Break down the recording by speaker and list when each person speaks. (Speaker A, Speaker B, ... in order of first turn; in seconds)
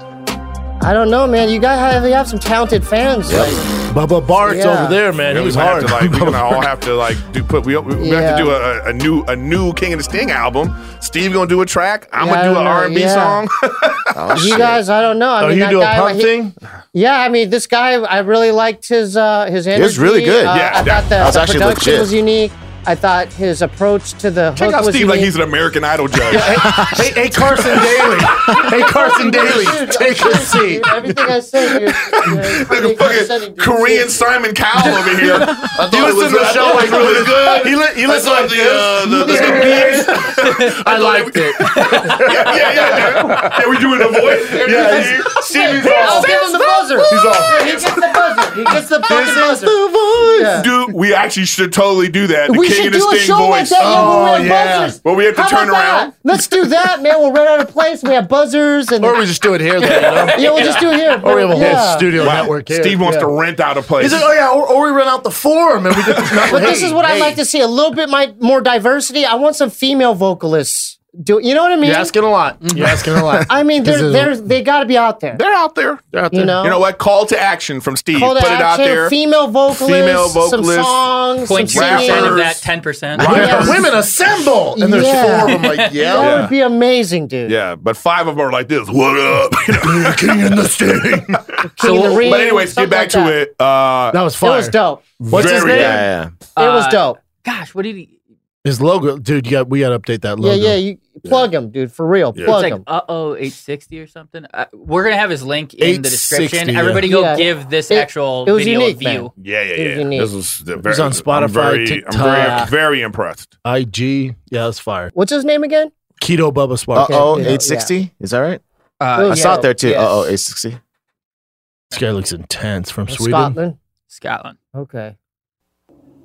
Speaker A: 0.8-3.6, 4.4-5.0, 8.0-8.6, 12.2-13.4, 14.3-16.3, 16.9-25.3, 28.2-34.3, 39.2-40.2, 44.7-50.7, 52.5-59.2, 60.3-62.1, 66.4-72.1, 73.5-75.4, 76.3-76.8, 78.1-82.4, 83.2-83.8, 84.8-87.6, 91.7-93.4, 94.4-95.0, 96.6-97.2, 100.4-102.8, 107.1-110.3, 112.4-112.7, 115.2-115.9, 117.0-117.9, 119.2-120.3, 123.1-123.8, 124.7-125.2
Speaker B: 3.3-3.5, 14.1-14.8, 19.7-22.1, 26.7-27.1, 95.4-96.3, 117.0-118.6, 119.2-120.8
Speaker C: 3.9-6.7, 15.4-16.6, 26.3-32.7, 35.3-48.1, 49.1-50.6, 53.8-55.0, 59.0-63.3, 64.0-67.4, 71.8-74.3, 76.1-76.6, 83.2-86.5, 89.8-91.4, 94.1-94.8, 95.3-96.0, 98.7-100.8, 105.8-107.0, 110.8-112.7, 113.7-115.1, 116.2-117.5, 121.9-123.6
Speaker D: 5.3-14.1, 20.5-21.3, 24.6-26.7, 32.2-46.3, 50.5-54.2, 55.0-56.1, 62.2-64.3, 75.3-76.0, 76.6-79.1, 79.7-82.7, 83.2-83.7, 86.2-86.5, 87.5-90.5, 92.2-94.2, 95.2-96.0, 109.4-113.5
Speaker E: 40.4-40.8, 41.6-42.2, 59.8-61.7, 72.6-73.0, 81.4-83.8, 85.5-86.0, 91.8-92.4, 96.6-98.1, 102.4-109.3, 119.0-120.1, 124.1-124.6